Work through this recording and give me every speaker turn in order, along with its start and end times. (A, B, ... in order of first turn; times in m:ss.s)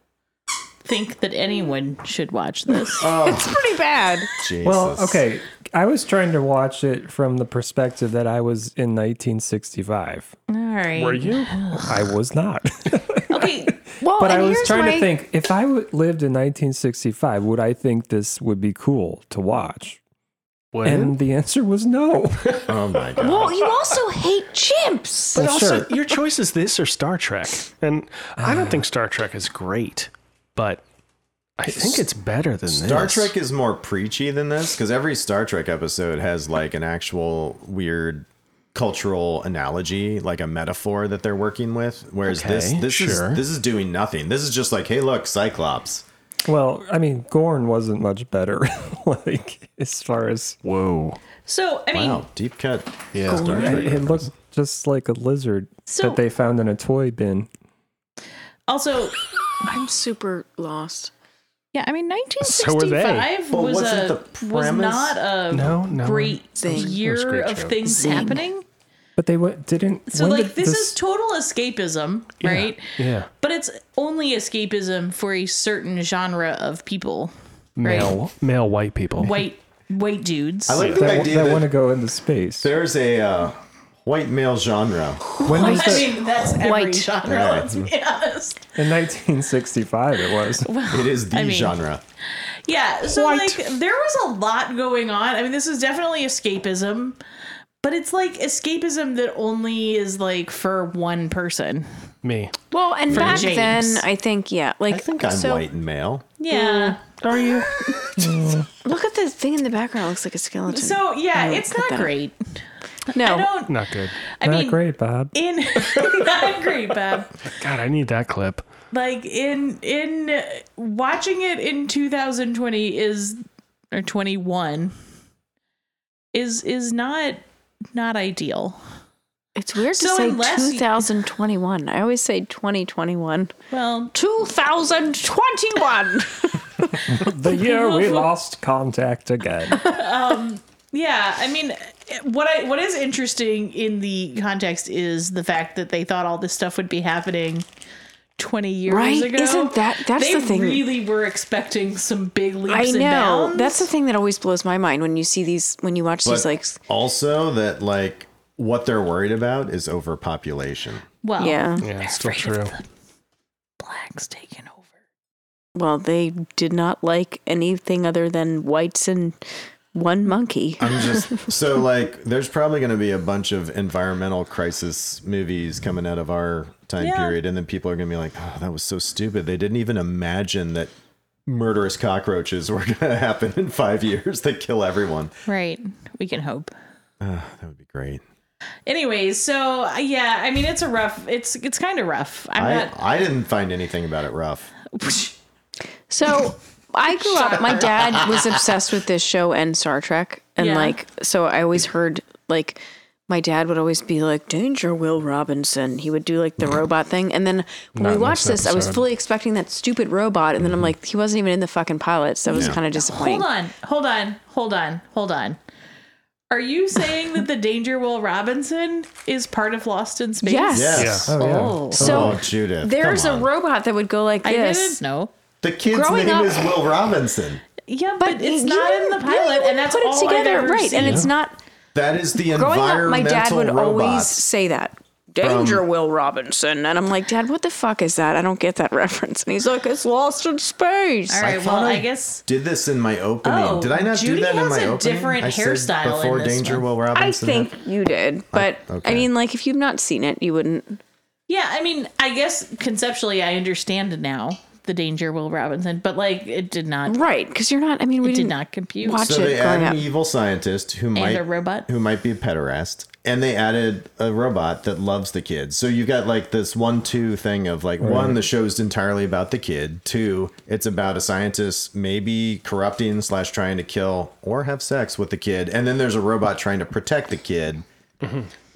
0:00.8-0:03.0 A
0:03.0-0:03.6 B
0:03.2-0:04.3 C
0:04.4-0:05.2 B
0:04.6-0:10.3 D
0:10.5-0:12.0 A
0:11.0-0:11.6 E
0:11.9-0:13.5 D
0:13.3-0:13.9 A
0:14.0-0:15.1 C
0:14.0-0:20.0 D
0:20.7-0:21.2 E
0:20.8-0:22.8 D
0:22.7-0:23.5 B
0:23.2-0:25.6 C
0:25.3-0:30.8 E
0:25.3-0:25.9 D
0:28.4-0:28.8 D
0:31.6-0:33.3 E
0:31.7-0:32.0 B
0:32.7-0:46.0 B
0:42.2-0:43.4 E
0:46.4-0:50.6 D
0:50.6-0:51.2 E
0:51.4-0:52.2 A
0:51.9-0:54.3 B
0:53.1-0:54.2 E
0:53.4-0:57.5 D
0:55.9-0:56.2 A
0:58.7-0:59.2 A
0:59.6-1:01.1 C
1:01.7-1:08.6 A
1:02.4-1:03.3 E
1:03.5-1:05.2 B
1:05.5-1:07.8 E
1:06.6-1:07.0 C
1:07.8-1:08.4 C
1:09.2-1:11.0 D
1:10.1-1:18.1 A
1:12.4-1:13.3 E
1:17.8-1:19.4 E
1:19.2-1:20.8 A
1:20.7-1:21.7 B
1:20.8-1:21.2 E
1:20.8-1:22.7 D
1:22.6-1:25.3 B
1:25.4-1:27.1 C
1:25.4-1:28.6 A
1:25.5-1:26.1 D
1:27.2-1:27.8 B
1:28.8-1:30.7 D
1:30.6-1:31.8 A
1:30.9-1:32.0 B
1:32.7-1:37.2 A
1:37.8-1:41.9 A
1:42.2-1:42.5 E
1:42.7-1:45.6 C
1:43.1-1:44.0 A
1:43.1-1:43.5 B
1:44.9-1:46.4 B
1:46.4-1:47.0 A
1:46.5-1:47.0 C
1:47.2-1:47.7 E
1:48.2-1:48.7 D
1:48.8-1:52.1 C
1:50.7-1:52.4 A
1:53.1-1:54.8 A
1:53.1-1:53.5 C
1:53.7-1:54.1 E
1:54.4-1:55.3 D
1:55.3-1:57.3 A
1:57.5-1:58.6 E
1:58.9-2:04.9 A
2:06.3-2:07.4 A
2:07.9-2:08.8 A
2:09.6-2:13.5 C
2:09.9-2:11.1 A
2:13.7-2:14.1 A
2:14.1-2:17.0 C
2:17.1-2:19.8 D
2:17.5-2:18.3 A
2:19.8-2:27.6 A
2:28.4-2:33.9 A
2:28.9-2:30.9 C
2:32.7-2:36.8 C
2:36.2-2:41.0 B
2:41.2-2:42.8 A
2:41.4-2:41.8 C
2:41.8-2:42.7 E
2:43.8-2:44.9 A
2:45.7-2:49.4 C
2:49.9-2:51.5 C
2:50.8-3:00.9 B
2:57.0-2:57.4 A
3:01.4-3:05.3 B
3:05.4-3:06.7 A
3:07.2-3:08.2 B
3:08.8-3:12.9 A
3:12.6-3:14.7 B
3:14.9-3:15.3 A
3:16.1-3:33.5 C
3:17.1-3:18.3 A
3:20.6-3:21.0 A
3:28.0-3:29.0 E
3:32.5-3:35.6 A
3:32.5-3:32.8 B
3:36.5-3:42.0 A
3:40.4-3:41.2 C
3:40.7-3:43.5 B
3:41.0-3:41.9 E
3:41.3-3:42.4 D
3:41.8-3:45.0 C
3:44.4-3:45.3 A
3:45.6-3:47.6 B
3:45.8-3:46.8 C
3:47.9-3:51.2 A
3:48.2-3:51.6 C
3:51.0-3:51.3 E
3:51.9-3:54.5 B
3:52.5-4:01.5 C
3:55.4-3:55.8 B
4:01.3-4:02.4 A
4:01.4-4:07.7 B
4:03.4-4:06.8 A
4:07.1-4:11.0 C
4:08.5-4:09.3 B
4:11.5-4:17.2 A
4:17.0-4:20.0 C
4:18.2-4:19.4 A
4:19.2-4:37.8 B
4:21.1-4:21.9 A
4:28.0-4:28.4 D
4:38.2-4:38.5 E